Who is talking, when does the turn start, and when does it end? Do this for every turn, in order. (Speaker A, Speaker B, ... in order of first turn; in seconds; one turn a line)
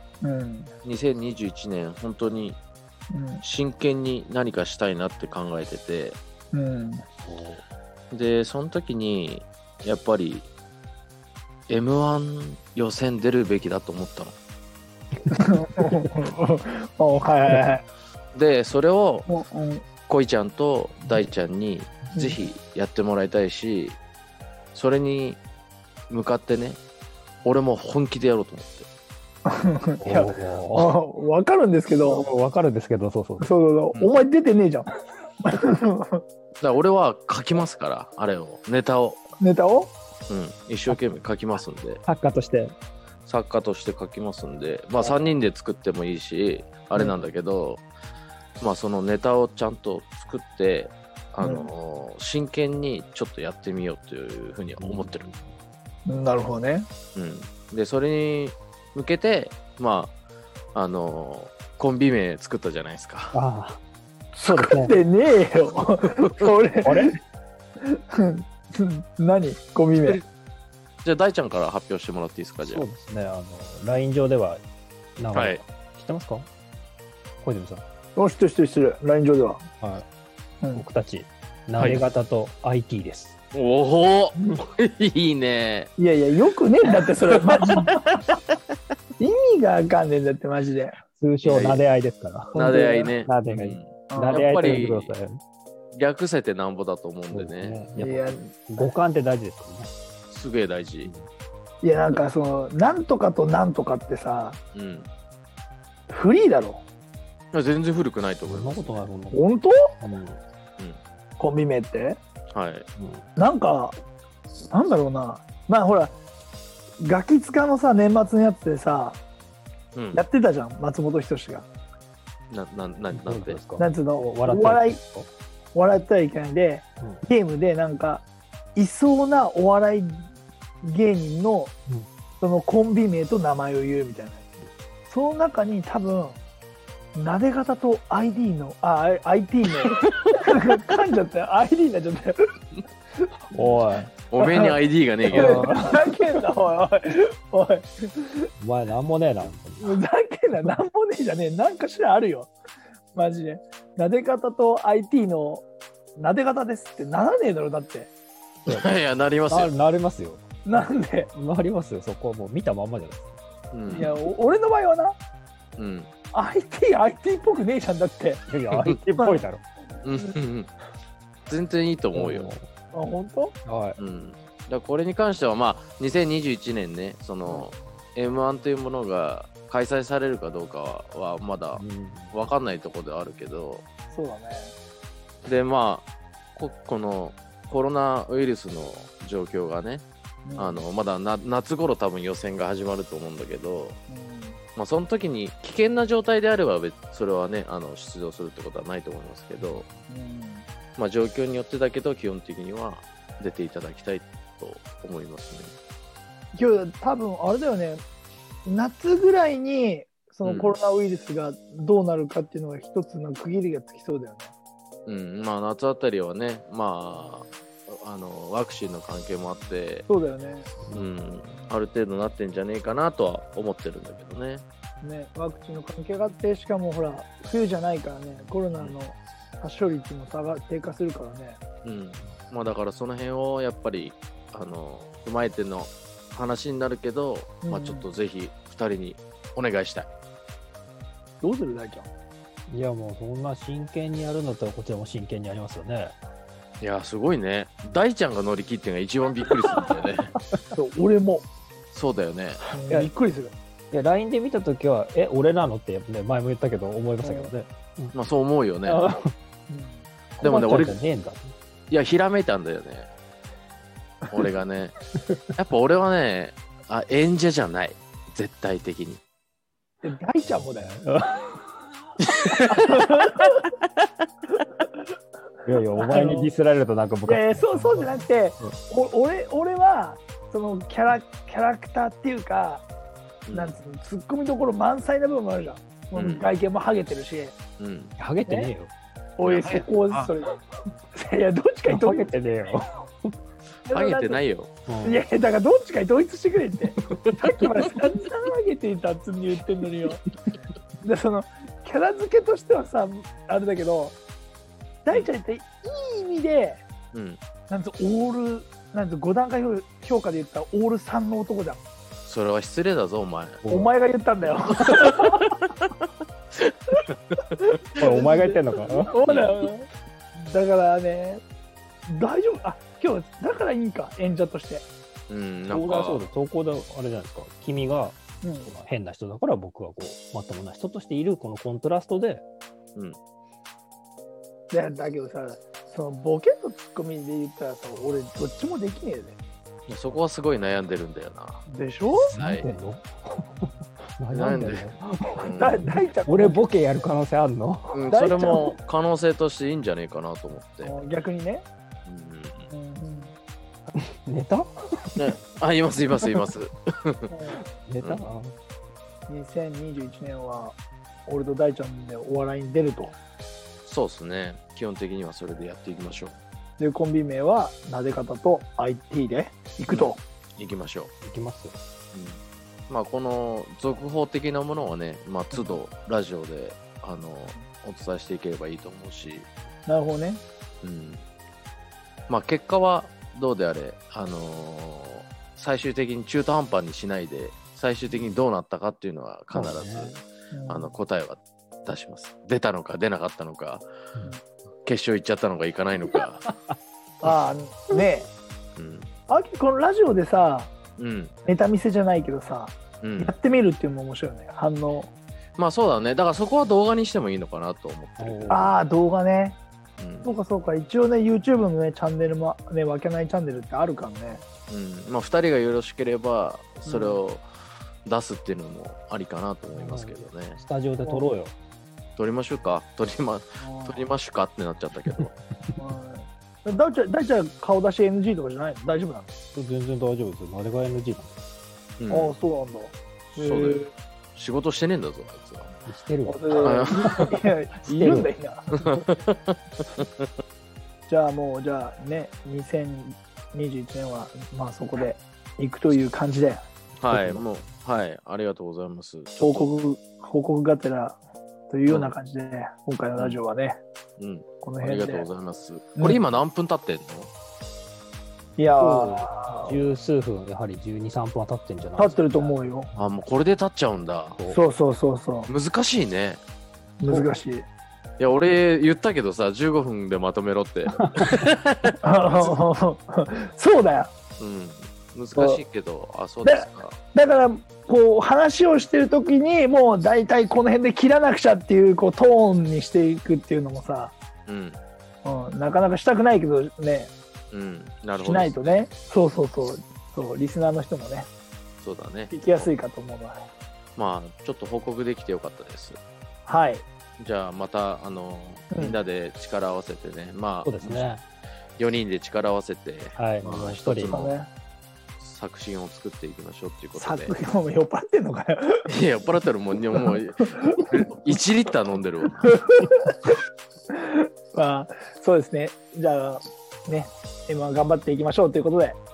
Speaker A: 0.2-0.7
Speaker B: 0.8-2.6
Speaker A: 3.1-3.4
Speaker B: 3.4-6.2
Speaker A: 6.5-7.0
Speaker C: 7.2-7.6
Speaker B: 8.1-10.5
Speaker B: 11.7-14.3
Speaker A: 15.3-17.9
Speaker B: 18.3-19.3
Speaker A: 19.3-19.8
Speaker B: 20.1-24.0
Speaker A: 22.1-22.4
Speaker B: 24.7-25.4
Speaker B: 26.1-26.8
Speaker B: 27.4-28.9
Speaker A: 29.5-32.3
Speaker C: 30.0-30.9
Speaker C: 32.1-33.5
Speaker A: 33.4-34.9
Speaker A: 35.4-36.2
Speaker B: 36.6-39.2
Speaker A: 39.4-39.9
Speaker B: 40.3-42.0
Speaker C: 42.1-42.8
Speaker B: 43.3-47.9
Speaker C: 45.0-45.3
Speaker B: 48.6-55.3
Speaker A: 51.4-51.7
Speaker C: 54.7-55.6
Speaker A: 56.1-56.9
Speaker B: 57.1-60.2
Speaker B: 60.7-63.4
Speaker C: 63.3-63.8
Speaker A: 64.4-67.1
Speaker C: 64.5-65.0
Speaker C: 66.8-67.2
Speaker A: 67.8-70.2
Speaker B: 71.0-72.8
Speaker C: 72.6-74.6
Speaker C: 75.2-76.5
Speaker B: 75.3-75.6
Speaker C: 77.4-77.8
Speaker A: 78.2-79.7
Speaker C: 79.8-80.1
Speaker C: 80.7-83.3
Speaker B: 81.8-82.0
Speaker B: 83.5-85.9
Speaker A: 86.0-88.2
Speaker A: 89.2-91.0
Speaker C: 91.2-95.4
Speaker B: 91.4-91.8
Speaker B: 92.5-95.2
Speaker A: 94.1-94.5
Speaker B: 95.9-97.8
Speaker C: 97.3-99.9
Speaker A: 98.0-98.9
Speaker B: 100.3-101.1
Speaker A: 101.8-104.6
Speaker B: 104.7-105.1
Speaker A: 106.1-106.8
Speaker B: 107.5-109.0
Speaker C: 108.5-109.4
Speaker A: 109.3-109.9
Speaker C: 110.0-110.4
Speaker A: 111.4-112.2
Speaker B: 112.5-112.9
Speaker C: 113.0-113.3
Speaker A: 113.4-114.0
Speaker A: 114.7-116.2
Speaker A: 117.0-119.2
Speaker B: 119.9-120.2
Speaker A: 120.1-121.7
Speaker B: 122.5-123.6
Speaker C: 123.1-125.3
Speaker A: 123.8-125.0
Speaker A: 125.7-128.2
Speaker A: 128.8-130.3
Speaker A: 130.8-131.7
Speaker A: 132.4-134.5
Speaker A: 135.1-136.4
Speaker A: 137.2-142.4
Speaker A: 143.5-143.9
Speaker C: 143.5-144.1
Speaker B: 144.3-145.6
Speaker A: 144.4-144.8
Speaker C: 145.3-146.2
Speaker A: 145.3-148.5
Speaker C: 148.6-150.0
Speaker A: 149.8-152.5
Speaker A: 153.1-155.7
Speaker A: 156.2-158.1
Speaker B: 158.7-159.7
Speaker C: 159.5-160.4
Speaker A: 160.7-161.3
Speaker C: 161.3-163.3
Speaker B: 163.7-164.2
Speaker A: 163.9-165.2
Speaker B: 165.8-166.1
Speaker A: 166.3-168.4
Speaker C: 168.5-169.6
Speaker A: 169.2-169.4
Speaker B: 170.0-170.7
Speaker B: 171.5-172.5
Speaker C: 172.1-172.7
Speaker A: 172.9-173.6
Speaker C: 173.7-174.0
Speaker B: 174.0-183.8
Speaker A: 177.5-177.7
Speaker C: 181.8-182.4
Speaker A: 184.1-184.7
Speaker B: 185.4-190.1
Speaker A: 190.4-190.9
Speaker B: 190.6-194.0
Speaker A: 194.1-194.6
Speaker B: 194.8-199.9
Speaker C: 199.6-200.0
Speaker A: 200.1-200.7
Speaker B: 201.0-205.7
Speaker A: 206.5-208.0
Speaker A: 208.7-214.5
Speaker B: 210.4-210.8
Speaker B: 215.1-220.1
Speaker A: 217.1-217.5
Speaker A: 220.1-220.7
Speaker B: 220.9-224.6
Speaker A: 225.0-231.6
Speaker B: 231.8-240.1
Speaker A: 237.6-238.1
Speaker A: 241.4-242.1
Speaker C: 242.7-246.2
Speaker B: 246.8-250.3
Speaker A: 250.7-251.5
Speaker B: 251.9-252.7
Speaker A: 252.7-253.5
Speaker C: 252.8-253.1
Speaker C: 253.9-258.1
Speaker A: 257.2-257.5
Speaker B: 258.1-259.0
Speaker C: 258.9-259.3
Speaker A: 259.7-260.1
Speaker B: 260.4-261.0
Speaker C: 260.4-261.6
Speaker B: 261.9-263.1
Speaker B: 264.3-264.9
Speaker B: 265.6-269.2
Speaker A: 270.0-270.9
Speaker C: 270.5-271.6
Speaker B: 272.4-273.0
Speaker A: 272.9-273.4
Speaker C: 275.6-278.8
Speaker A: 275.9-276.5
Speaker A: 277.3-282.9
Speaker B: 283.5-283.8
Speaker A: 283.5-287.6
Speaker B: 286.1-286.5
Speaker B: 287.8-288.2
Speaker C: 288.2-288.9
Speaker A: 288.5-288.7
Speaker A: 289.4-290.6
Speaker B: 289.4-290.3
Speaker A: 291.1-292.4
Speaker C: 291.9-293.3
Speaker A: 293.9-294.4
Speaker B: 293.9-294.7
Speaker C: 294.9-295.2
Speaker A: 295.0-300.2
Speaker A: 301.0-304.2
Speaker A: 305.1-306.9
Speaker B: 307.1-307.4
Speaker A: 307.7-311.8
Speaker B: 312.2-313.7
Speaker C: 313.6-313.9
Speaker A: 313.7-315.5
Speaker B: 314.9-315.9
Speaker A: 318.0-321.4
Speaker C: 318.0-319.2
Speaker B: 319.2-319.7
Speaker A: 322.1-324.9
Speaker B: 325.3-326.3
Speaker C: 325.7-332.4
Speaker A: 328.4-328.7
Speaker A: 334.7-339.4
Speaker B: 339.9-341.6
Speaker A: 341.7-342.3
Speaker C: 342.1-348.0
Speaker B: 342.4-342.7
Speaker B: 344.3-345.9
Speaker A: 345.5-347.1
Speaker B: 347.9-350.9
Speaker A: 348.1-348.8
Speaker A: 350.8-351.6
Speaker B: 352.1-352.7
Speaker A: 352.7-353.3
Speaker C: 354.0-355.3
Speaker B: 355.2-357.3
Speaker A: 357.3-357.6
Speaker C: 357.6-358.6
Speaker B: 358.0-358.3
Speaker A: 359.3-363.1
Speaker B: 363.9-366.4
Speaker A: 366.8-370.2
Speaker B: 369.9-371.1
Speaker C: 371.2-371.8
Speaker B: 372.1-379.5
Speaker A: 375.5-375.8
Speaker A: 379.9-380.4
Speaker B: 380.8-381.2
Speaker B: 382.3-393.9
Speaker C: 389.5-390.2
Speaker A: 390.5-390.9
Speaker B: 394.9-396.4
Speaker C: 396.1-396.8
Speaker A: 397.2-398.3
Speaker B: 398.8-399.1
Speaker A: 399.3-400.7
Speaker B: 401.0-401.4
Speaker A: 401.4-405.1
Speaker B: 403.0-403.4
Speaker B: 405.6-408.6
Speaker C: 408.2-408.7
Speaker A: 408.5-409.6
Speaker B: 410.0-410.4
Speaker A: 410.2-414.4
Speaker B: 414.7-417.5
Speaker A: 416.9-417.2
Speaker B: 418.1-420.6
Speaker C: 419.8-421.5
Speaker B: 422.2-425.3
Speaker A: 423.6-424.1
Speaker C: 425.1-425.8
Speaker A: 425.8-429.3
Speaker C: 429.6-431.4
Speaker B: 432.0-432.4
Speaker A: 432.1-433.9
Speaker B: 433.3-435.7
Speaker C: 435.9-438.3
Speaker A: 436.3-438.7
Speaker B: 436.6-437.3
Speaker B: 438.7-440.3
Speaker A: 441.1-446.6
Speaker B: 447.0-449.7
Speaker C: 447.1-447.4
Speaker A: 449.4-453.8
Speaker B: 451.9-452.1
Speaker B: 454.2-457.3
Speaker A: 454.6-455.3
Speaker A: 456.0-456.2
Speaker A: 458.6-459.9
Speaker C: 458.8-462.6
Speaker A: 462.0-462.9
Speaker B: 462.9-464.4
Speaker C: 464.4-464.6
Speaker A: 464.5-465.5
Speaker B: 465.5-466.4
Speaker A: 467.0-467.7
Speaker C: 467.1-467.4
Speaker B: 468.2-472.5
Speaker A: 472.0-474.1
Speaker B: 474.4-477.0
Speaker A: 475.4-475.6
Speaker A: 476.4-484.1
Speaker B: 484.5-484.8
Speaker A: 485.2-487.1
Speaker B: 487.5-488.7
Speaker A: 488.2-491.3
Speaker B: 491.8-492.7
Speaker A: 492.3-493.4
Speaker B: 494.0-496.0
Speaker A: 496.5-496.9
Speaker B: 497.2-501.1
Speaker A: 498.7-499.0
Speaker C: 500.6-501.2
Speaker B: 501.8-504.3
Speaker C: 503.2-504.3
Speaker A: 504.1-504.5
Speaker B: 505.2-507.4
Speaker A: 507.0-508.9
Speaker B: 508.9-512.6
Speaker A: 510.4-510.9
Speaker A: 512.5-513.3
Speaker A: 514.1-519.0